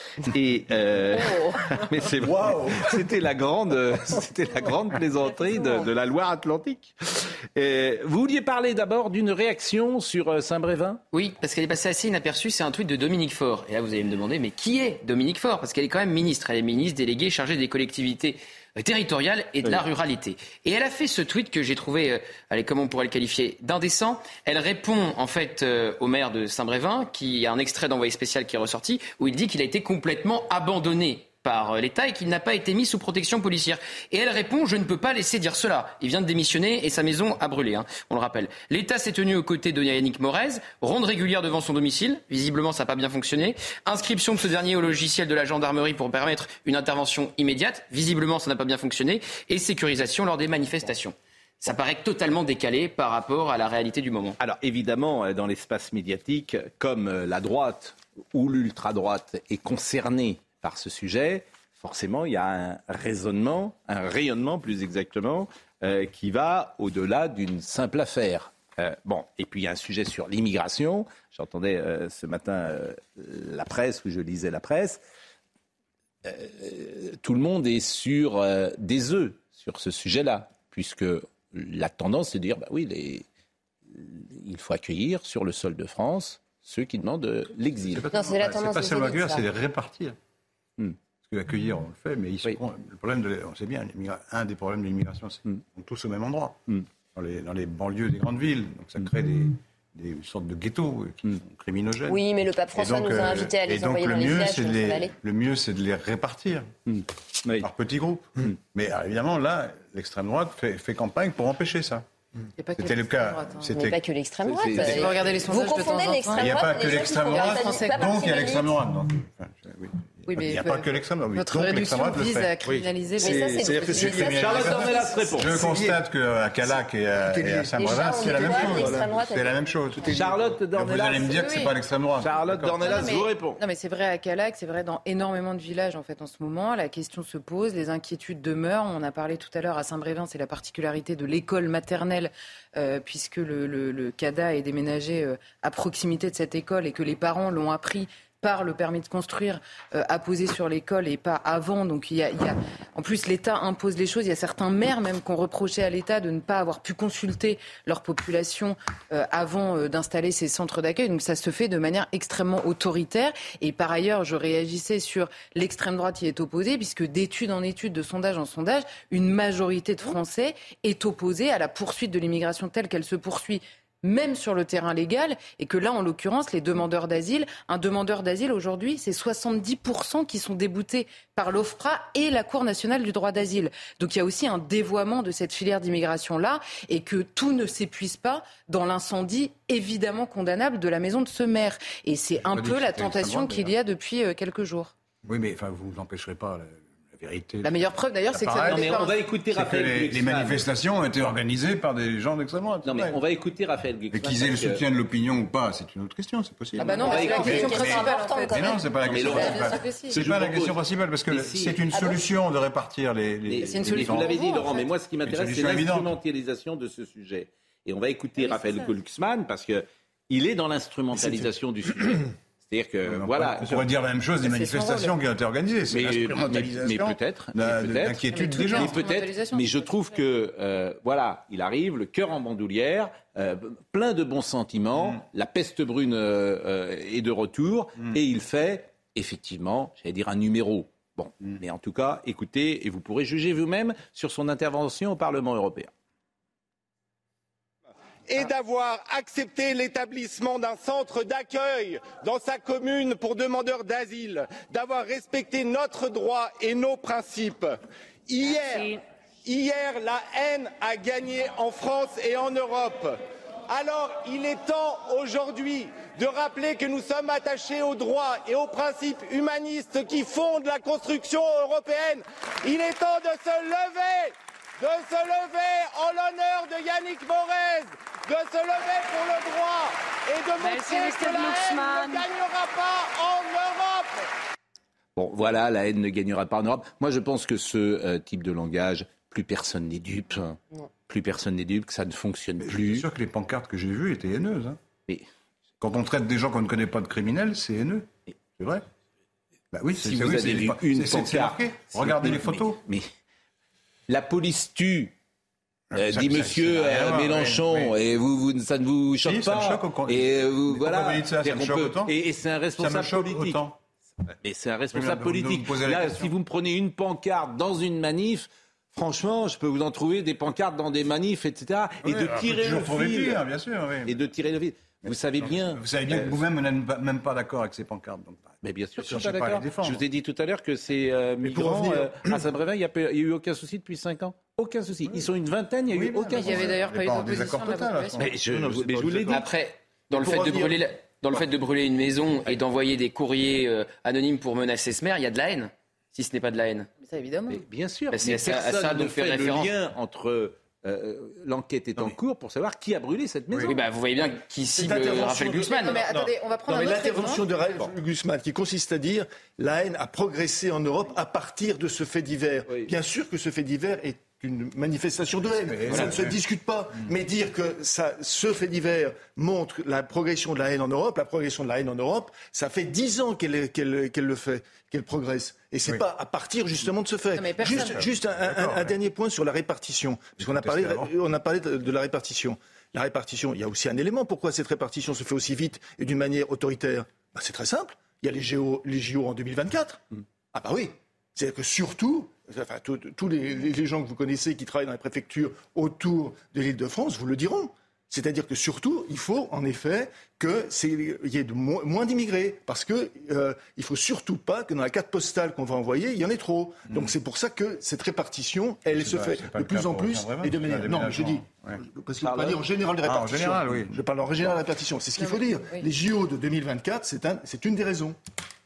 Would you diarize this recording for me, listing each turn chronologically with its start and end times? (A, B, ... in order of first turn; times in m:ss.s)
0:00.2-0:11.0 A
0:02.2-0:03.0 B
0:11.1-0:54.4 C
0:54.4-1:15.0 A
1:16.2-1:23.2 A
1:23.9-1:28.1 A
1:27.9-1:30.2 B
1:28.1-1:29.5 D
1:31.2-1:36.6 B
1:37.1-1:42.2 B
1:42.1-1:45.1 D
1:42.7-1:46.7 B
1:46.9-1:47.7 A
1:47.6-1:52.1 B
1:52.6-1:53.7 E
1:52.8-1:54.0 B
1:53.7-1:58.8 D
1:54.4-1:55.1 A
1:54.7-1:56.5 E
1:56.4-2:13.1 B
1:57.4-1:58.1 E
2:00.3-2:04.1 E
2:03.2-2:05.3 D
2:04.3-2:05.5 A
2:05.4-2:06.0 F
2:07.2-2:09.1 F
2:07.8-2:09.8 D
2:10.1-2:11.4 A
2:11.3-2:11.7 E
2:12.2-2:13.6 A
2:12.8-3:14.9 E
3:12.4-3:13.7 B
3:15.2-3:19.0 B
3:17.6-3:19.1 E
3:18.6-3:20.7 A
3:19.5-3:23.2 B
3:22.8-3:24.8 A
3:24.1-3:34.5 B
3:26.8-3:28.0 A
3:26.8-3:30.2 E
3:27.0-3:28.8 D
3:29.1-3:31.9 A
3:29.4-3:29.7 D
3:31.9-3:32.3 D
3:33.5-3:43.9 A
3:33.7-3:34.8 E
3:35.3-3:36.2 B
3:43.0-3:49.1 B
3:44.4-3:45.1 E
3:45.9-4:05.9 A
3:48.3-3:50.2 E
4:08.3-4:44.2 G
4:45.2-4:53.1 A
4:52.6-4:54.8 B
4:55.8-4:58.8 B
4:59.7-5:02.8 B
4:59.9-5:03.1 A
5:04.1-5:05.1 A
5:05.9-5:08.0 B
5:06.0-5:13.6 A
5:09.2-5:12.1 B
5:12.8-5:13.8 B
5:14.4-5:23.4 A
5:14.9-5:16.3 B
5:22.0-5:24.2 B
5:24.0-5:26.4 A
5:25.1-5:30.0 B
5:28.6-5:36.8 A
5:31.4-5:32.3 F
5:35.9-5:39.4 B
5:36.4-5:38.2 E
5:38.2-5:39.4 A
5:39.3-5:46.9 C
5:40.1-5:40.8 F
5:47.0-5:47.6 E
5:47.5-5:53.8 A
5:48.1-5:49.7 C
5:53.7-5:56.0 C
5:54.8-6:30.0 F
5:55.5-5:57.4 E
6:05.7-6:06.4 B
6:17.4-6:18.0 E
6:17.7-6:18.9 B
6:20.5-6:21.1 B
6:30.5-6:58.2 F
6:48.9-6:51.8 B
6:52.2-6:52.6 A
6:53.1-6:54.5 B
6:55.2-6:55.9 E